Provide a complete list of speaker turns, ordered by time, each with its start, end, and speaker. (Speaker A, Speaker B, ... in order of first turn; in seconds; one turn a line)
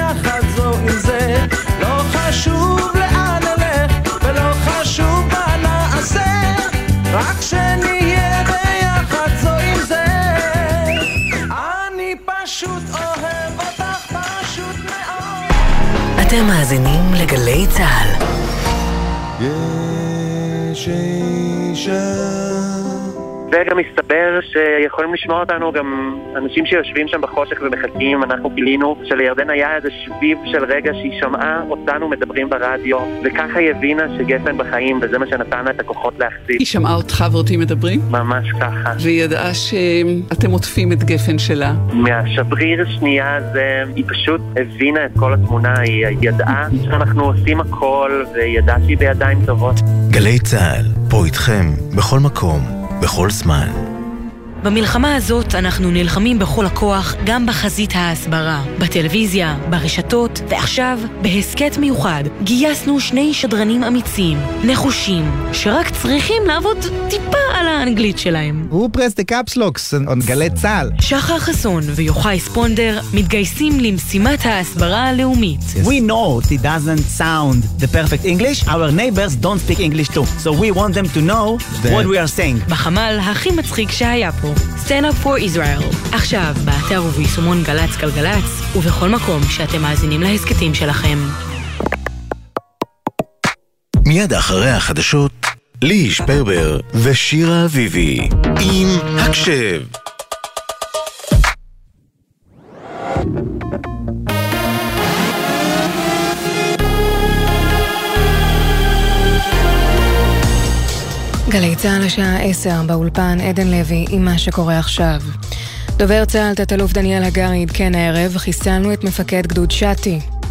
Speaker A: 2.9-3.7
Speaker A: 7.4-7.8
Speaker A: 11.8-12.9
Speaker B: 19.4-22.0
Speaker A: 23.5-36.6
Speaker C: 36.6-38.1
Speaker A: 38.1-39.0
Speaker C: 39.0-41.8
Speaker A: 41.9-49.8
Speaker D: 50.1-53.8
Speaker E: 54.6-68.7
Speaker F: 68.7-70.9
Speaker E: 71.0-75.9
Speaker F: 75.8-82.6
Speaker E: 82.7-91.3
Speaker D: 94.0-99.9
Speaker G: 111.5-115.3
Speaker G: 116.0-120.2